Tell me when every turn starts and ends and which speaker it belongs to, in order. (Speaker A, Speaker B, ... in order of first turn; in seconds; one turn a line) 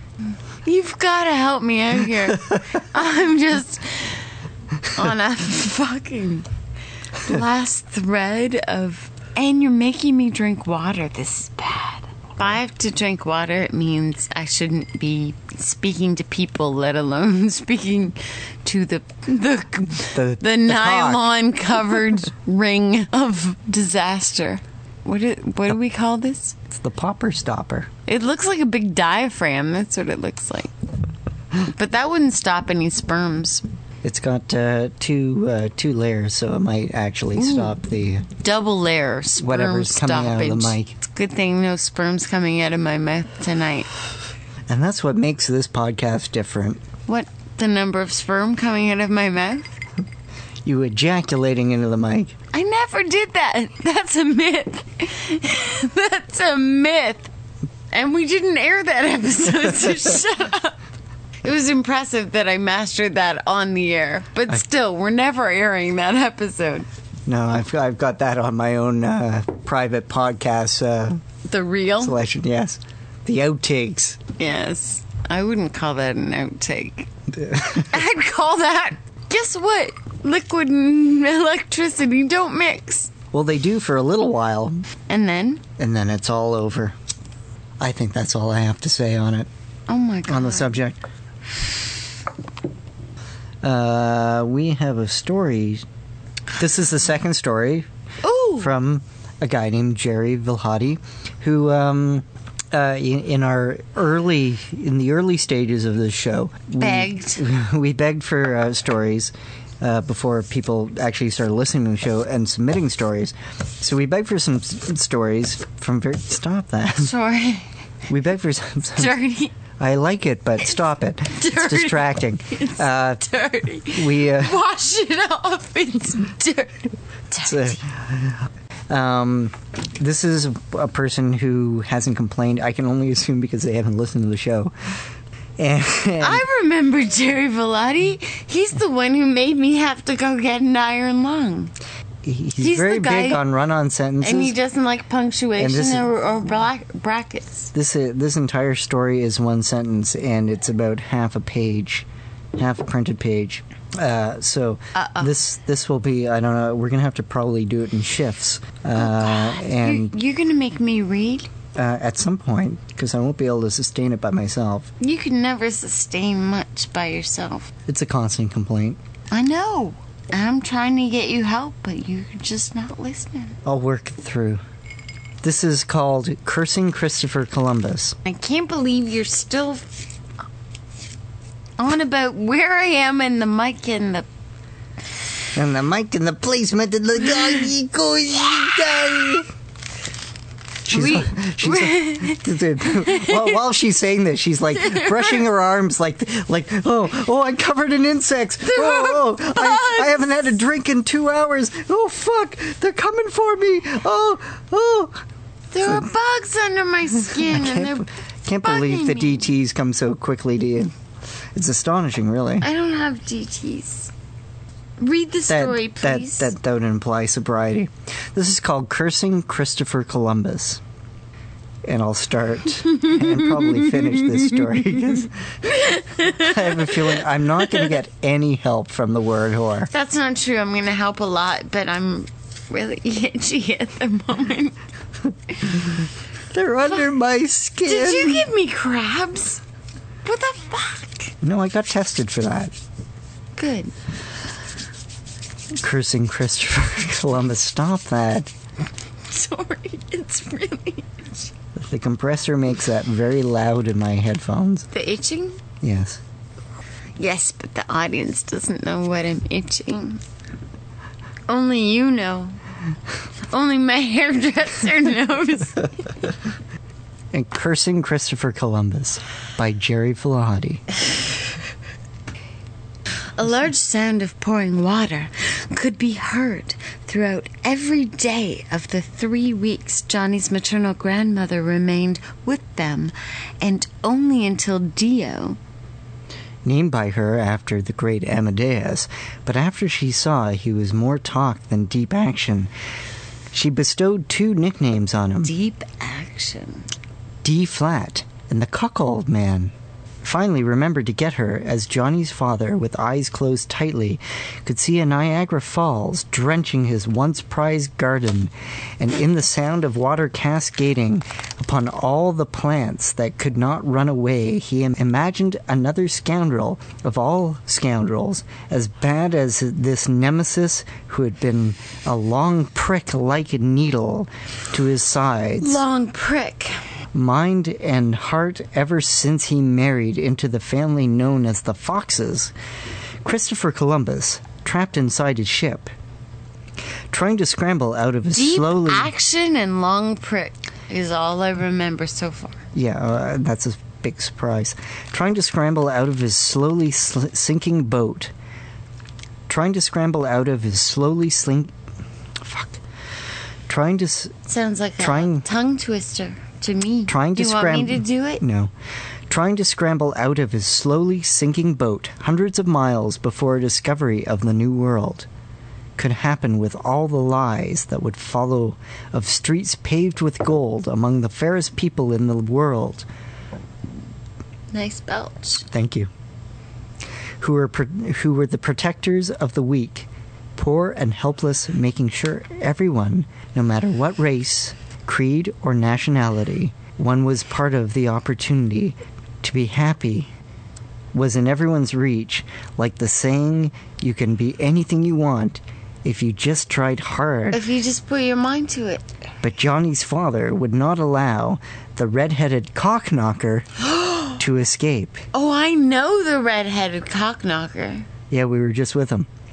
Speaker A: 0.6-4.3
Speaker A: 4.9-6.5
Speaker A: 7.2-26.6
Speaker B: 20.1-21.3
Speaker B: 26.7-27.9
Speaker A: 28.1-30.7
Speaker A: 31.6-33.6
Speaker B: 34.0-38.3
Speaker A: 37.4-37.7
Speaker A: 38.4-43.9
Speaker B: 39.4-41.0
Speaker B: 44.7-46.8
Speaker A: 47.1-49.8
Speaker B: 50.6-52.3
Speaker A: 52.5-57.3
Speaker A: 57.9-60.8
Speaker A: 61.4-66.9
Speaker B: 67.3-71.2
Speaker A: 71.5-72.2
Speaker B: 72.0-74.2
Speaker A: 74.4-77.1
Speaker B: 77.3-77.9
Speaker A: 77.7-83.1
Speaker B: 83.3-84.8
Speaker A: 85.1-85.6
Speaker B: 85.8-87.0
Speaker B: 87.8-89.5
Speaker A: 89.9-90.8
Speaker B: 90.3-91.0
Speaker B: 93.6-95.8
Speaker B: 96.6-97.9
Speaker A: 98.2-98.7
Speaker B: 98.6-117.1
Speaker A: 106.8-107.5
Speaker A: 117.0-117.7
Speaker B: 118.1-119.2
Speaker A: 119.0-119.5
Speaker B: 119.8-123.2
Speaker A: 121.3-127.8
Speaker B: 123.9-124.6
Speaker B: 127.4-134.7
Speaker B: 135.6-136.4
Speaker A: 136.2-141.7
Speaker B: 142.2-144.6
Speaker A: 142.6-143.4
Speaker A: 144.2-147.7
Speaker B: 145.6-146.1
Speaker B: 147.7-160.1
Speaker A: 154.9-155.3
Speaker A: 159.0-161.5
Speaker B: 161.8-164.9
Speaker A: 165.0-167.7
Speaker B: 167.9-169.0
Speaker A: 169.3-173.6
Speaker B: 173.7-174.6
Speaker B: 175.4-178.2
Speaker A: 178.2-179.8
Speaker A: 181.8-184.3
Speaker B: 185.6-189.5
Speaker B: 190.8-205.2
Speaker A: 190.9-193.6
Speaker A: 194.8-195.4
Speaker A: 198.7-200.5
Speaker A: 205.7-208.1
Speaker B: 207.3-210.9
Speaker A: 208.6-209.5
Speaker B: 211.5-212.7
Speaker A: 212.6-214.1
Speaker A: 215.0-216.5
Speaker B: 215.5-220.8
Speaker B: 221.8-225.3
Speaker A: 223.0-224.6
Speaker A: 225.6-227.8
Speaker B: 226.2-229.9
Speaker A: 229.9-234.8
Speaker B: 236.5-238.5
Speaker A: 237.8-239.6
Speaker A: 240.2-241.3
Speaker B: 241.4-242.7
Speaker A: 243.6-243.9
Speaker B: 245.8-248.5
Speaker A: 249.3-251.5
Speaker B: 251.8-254.9
Speaker A: 254.9-255.6
Speaker B: 255.8-256.2
Speaker A: 257.2-260.2
Speaker A: 261.5-262.6
Speaker A: 263.5-265.9
Speaker B: 267.3-270.8
Speaker A: 273.4-285.6
Speaker B: 286.6-292.7
Speaker B: 293.5-295.5
Speaker A: 295.4-296.9
Speaker B: 297.4-325.8
Speaker A: 325.6-326.8
Speaker B: 327.1-332.5
Speaker B: 333.2-335.9
Speaker B: 337.1-339.1
Speaker A: 338.4-342.6
Speaker B: 342.8-348.3
Speaker B: 349.5-351.7
Speaker B: 352.4-352.8
Speaker B: 353.7-354.4
Speaker A: 354.5-358.4
Speaker B: 355.0-355.4
Speaker B: 357.1-358.7
Speaker B: 359.3-365.3
Speaker B: 366.0-373.1
Speaker A: 374.7-375.7
Speaker B: 375.7-376.1
Speaker B: 377.4-390.3
Speaker B: 391.1-397.6
Speaker A: 397.5-399.1
Speaker B: 399.4-403.7
Speaker A: 403.9-404.3
Speaker B: 404.4-405.2
Speaker A: 405.3-408.1
Speaker B: 408.3-409.3